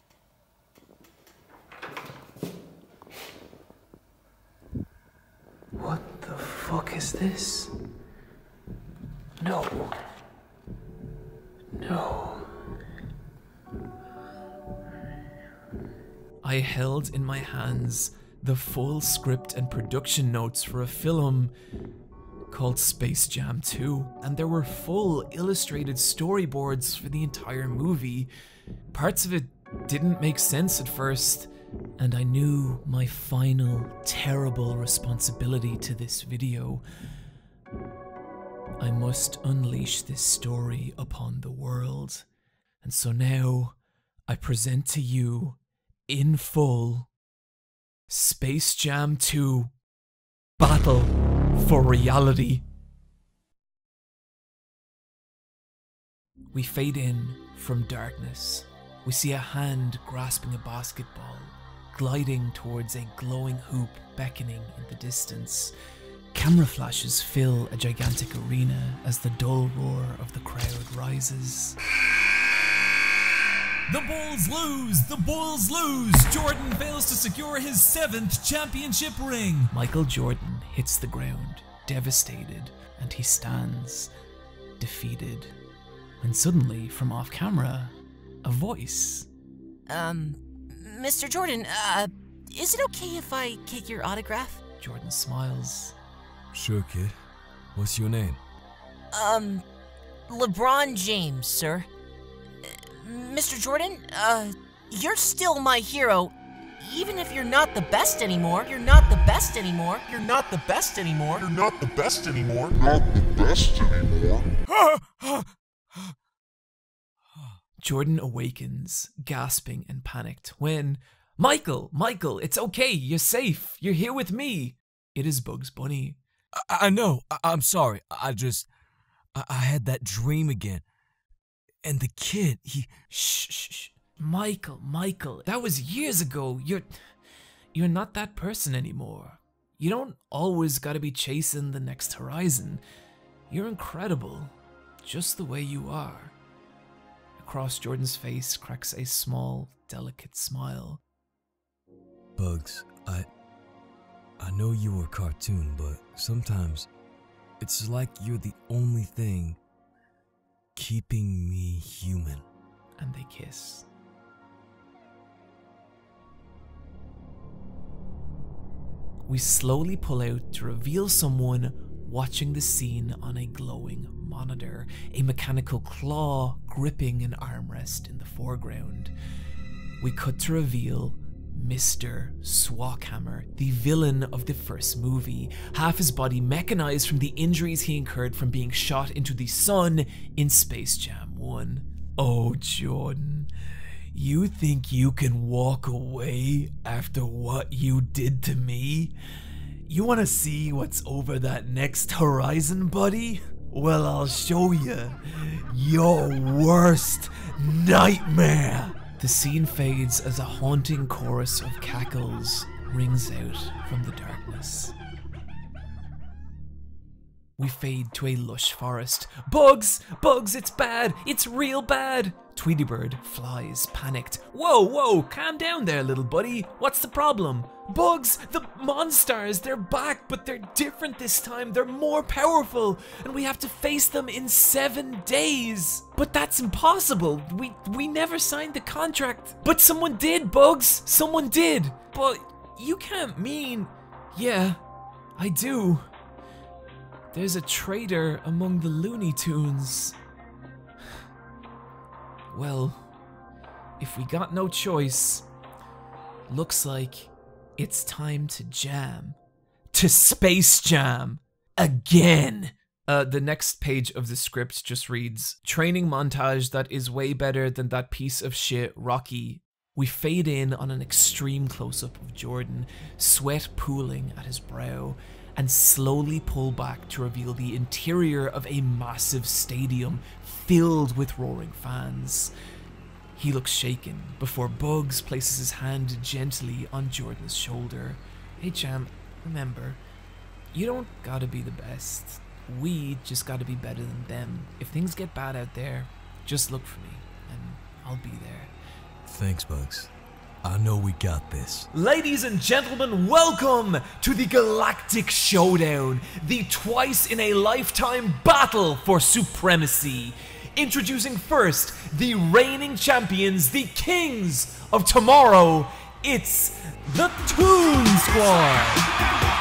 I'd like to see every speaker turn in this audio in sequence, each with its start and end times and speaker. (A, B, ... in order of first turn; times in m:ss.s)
0:05.8-0:07.7 A
0:09.4-0:09.9 A
0:11.8-0:12.5 A
0:16.4-0:21.5 A
0:22.5-0:28.3 A
0:28.9-0:36.8 A
0:38.8-0:42.3 A
0:42.8-0:43.8 A
0:44.3-0:47.1 A
0:48.1-0:49.7 A
0:50.6-0:52.6 A
0:56.5-1:05.7 A
1:06.3-1:11.8 A
1:13.9-1:24.1 A
1:24.8-1:25.6 A
1:26.2-1:29.3 A
1:29.9-1:34.6 B
1:34.8-1:36.0 A
1:36.5-1:37.2 C
1:37.8-1:38.4 C
1:39.1-1:39.6 B
1:40.3-1:41.9 B
1:42.6-1:51.4 B
1:51.4-1:54.4 D
1:54.7-1:55.5 C
1:57.8-2:06.2 A
2:06.6-2:08.7 C
2:09.4-2:10.8 C
2:11.8-2:13.0 C
2:13.0-2:16.9 A
2:17.7-2:22.8 A
2:23.5-2:26.3 A
2:27.4-2:31.0 A
2:32.4-2:33.3 C
2:34.4-2:36.9 C
2:37.6-2:39.6 C
2:40.8-2:42.4 C
2:43.0-2:43.9 A
2:49.3-2:59.1 A
3:00.0-3:13.5 A
3:14.1-3:19.1 A
3:19.9-3:35.0 A
3:37.6-4:04.8 A
4:05.4-4:06.1 A
4:07.3-4:10.2 A
4:12.5-4:13.1 A
4:14.0-4:15.5 A
4:16.5-4:19.4 A
4:19.9-4:42.5 A
4:43.4-4:50.0 A
4:50.7-4:58.7 A
4:59.2-5:00.1 C
5:00.6-5:01.9 C
5:01.9-5:19.1 A